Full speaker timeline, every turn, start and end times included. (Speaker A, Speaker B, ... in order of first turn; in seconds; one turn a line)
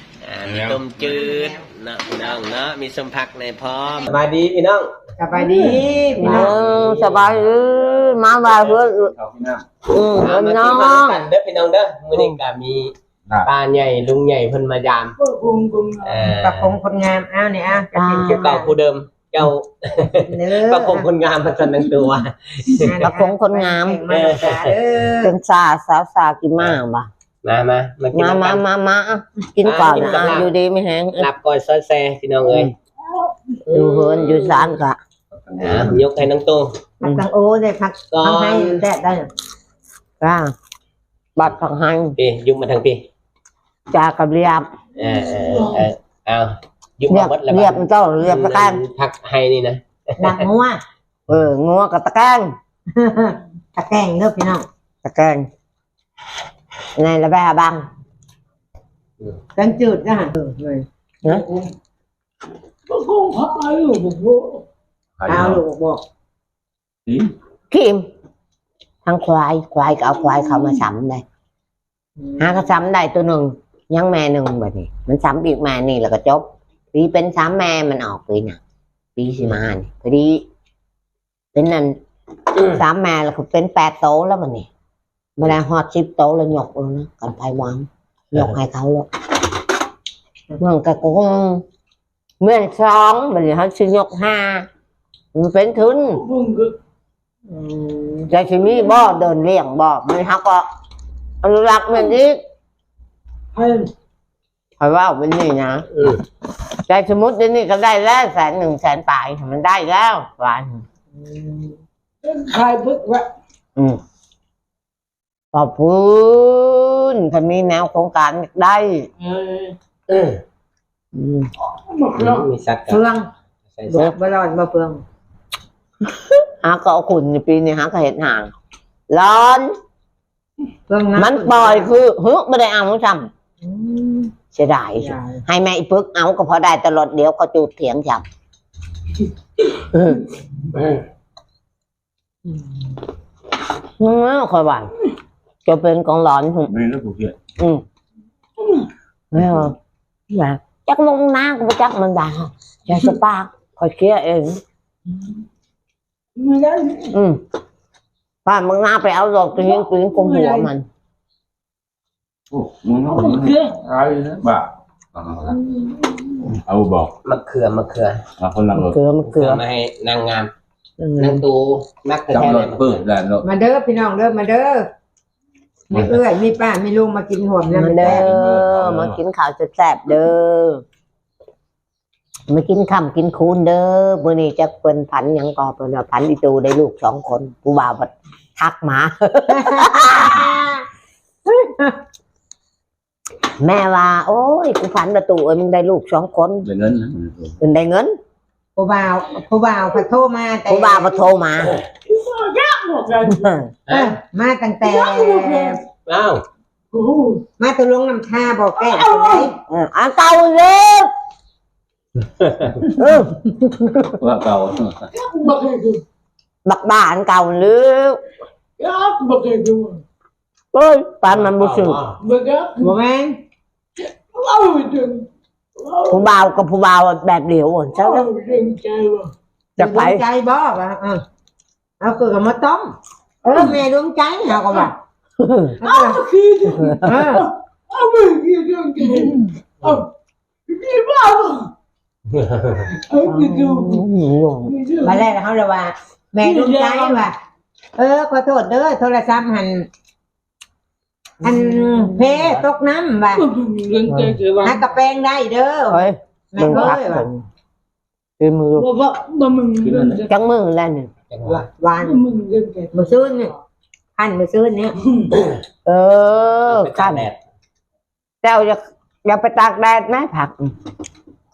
Speaker A: 0.2-4.9
Speaker B: 1.1-1.6
Speaker B: 5.2-6.5
Speaker C: 5.5-5.7
Speaker D: 6.2-9.1
Speaker A: 6.2-7.3
Speaker E: 9.2-9.6
Speaker D: 9.8-11.3
Speaker A: 10.2-12.9
Speaker A: 13.4-15.2
Speaker C: 15.2-16.2
Speaker A: 16.0-16.8
Speaker B: 16.4-18.7
Speaker D: 17.9-18.6
Speaker A: 18.3-23.1
Speaker B: 20.2-21.1
Speaker B: 22.8-25.3
Speaker D: 23.0-24.1
Speaker A: 24.1-24.8
Speaker D: 25.2-27.1
Speaker A: 27.4-28.6
Speaker D: 28.1-31.3
Speaker A: 29.6-30.5
Speaker A: 31.1-32.7
Speaker D: 32.5-32.7
Speaker D: 33.7-35.0
Speaker E: 35.6-35.9
Speaker A: 35.6-36.7
Speaker B: 37.0-39.3
Speaker A: 38.1-38.8
Speaker D: 40.2-40.5
Speaker D: 41.4-42.2
Speaker A: 42.2-43.0
Speaker D: 43.9-44.7
Speaker A: 45.0-50.4
Speaker D: 47.1-48.8
Speaker B: 50.2-50.8
Speaker D: 51.3-52.5
Speaker B: 53.0-54.6
Speaker D: 55.0-55.5
Speaker D: 57.0-57.9
Speaker B: 59.5-60.9
Speaker C: 62.9-64.6
Speaker E: 65.2-65.6
Speaker B: 65.3-66.0
Speaker D: 67.7-68.1
Speaker D: 69.0-71.2
Speaker D: 72.4-78.6
Speaker D: 79.2-80.4
Speaker D: 81.5-82.0
Speaker D: 82.7-84.7
Speaker D: 85.4-89.1
Speaker D: 90.6-91.6
Speaker D: 92.4-94.7
Speaker D: 95.3-96.2
Speaker C: 96.3-96.7
Speaker B: 97.5-98.3
Speaker D: 98.3-100.7
Speaker D: 101.4-102.4
Speaker C: 103.5-103.9
Speaker D: 104.8-105.8
Speaker D: 106.9-110.8
Speaker B: 111.2-111.7
Speaker C: 112.2-113.3
Speaker D: 115.5-119.1
Speaker C: 119.2-119.7
Speaker A: 120.1-120.4
Speaker D: 121.1-121.5
Speaker C: 121.8-122.5
Speaker A: 122.2-123.0
Speaker B: 122.9-123.3
Speaker A: 123.7-124.1
Speaker B: 123.9-125.0
Speaker D: 126.4-128.5
Speaker D: 129.1-129.7
Speaker B: 130.9-131.9
Speaker D: 131.2-133.3
Speaker B: 133.6-134.3
Speaker D: 134.5-138.2
Speaker B: 135.0-135.4
Speaker D: 139.9-140.2
Speaker D: 144.0-144.9
Speaker D: 145.6-146.7
Speaker C: 147.0-147.3
Speaker D: 147.6-147.8
Speaker C: 148.6-148.9
Speaker D: 149.3-149.7
Speaker D: 150.3-154.6
Speaker C: 156.3-157.1
Speaker D: 157.1-157.4
Speaker D: 158.4-160.8
Speaker C: 159.8-160.7
Speaker E: 162.5-163.5
Speaker C: 162.9-164.4
Speaker E: 164.2-165.5
Speaker C: 165.5-166.5
Speaker E: 166.7-167.1
Speaker A: 167.2-168.2
Speaker E: 168.4-168.9
Speaker D: 168.8-169.6
Speaker A: 169.2-170.5
Speaker D: 171.0-171.4
Speaker A: 171.2-173.0
Speaker E: 172.3-173.4
Speaker B: 173.4-174.9
Speaker B: 175.9-178.2
Speaker D: 177.7-180.8
Speaker E: 178.2-179.2
Speaker D: 182.5-190.6
Speaker B: 189.5-190.8
Speaker D: 193.6-196.7
Speaker E: 196.7-197.5
Speaker D: 197.6-198.2
Speaker B: 198.8-201.2
Speaker D: 200.7-201.8
Speaker C: 202.1-203.3
Speaker D: 203.3-203.7
Speaker A: 203.9-204.2
Speaker B: 203.9-205.8
Speaker C: 204.8-205.6
Speaker A: 206.1-206.4
Speaker C: 206.9-207.4
Speaker B: 207.6-209.6
Speaker C: 208.8-209.4
Speaker D: 209.6-211.1
Speaker A: 212.4-212.7
Speaker D: 213.0-214.1
Speaker E: 214.2-215.0
Speaker C: 215.1-216.0
Speaker D: 216.6-218.2
Speaker C: 218.8-220.0
Speaker D: 220.7-222.0
Speaker A: 221.3-222.2
Speaker C: 222.3-222.7
Speaker B: 222.8-223.4
Speaker C: 224.3-225.2
Speaker D: 226.0-228.3
Speaker C: 227.9-229.3
Speaker D: 229.8-230.2
Speaker B: 229.8-231.2
Speaker B: 232.0-232.9
Speaker B: 233.4-235.0
Speaker D: 235.4-235.8
Speaker B: 235.8-236.2
Speaker C: 235.8-240.0
Speaker B: 237.0-237.5
Speaker C: 240.7-241.7
Speaker A: 242.3-242.9
Speaker C: 243.1-244.0
Speaker D: 243.2-244.7
Speaker C: 244.7-245.1
Speaker B: 245.0-247.3
Speaker C: 246.5-246.9
Speaker B: 247.9-249.9
Speaker B: 251.4-253.5
Speaker D: 251.4-252.6
Speaker C: 253.4-254.8
Speaker D: 254.1-254.4
Speaker B: 254.6-257.3
Speaker D: 255.9-257.4
Speaker D: 258.4-258.9
Speaker C: 258.8-260.3
Speaker E: 259.8-260.1
Speaker D: 260.2-261.1
Speaker A: 261.3-261.6
Speaker B: 261.5-262.2
Speaker C: 262.1-262.9
Speaker B: 262.9-263.5
Speaker B: 264.1-264.9
Speaker D: 265.8-267.2
Speaker A: 266.6-267.4
Speaker D: 268.4-270.7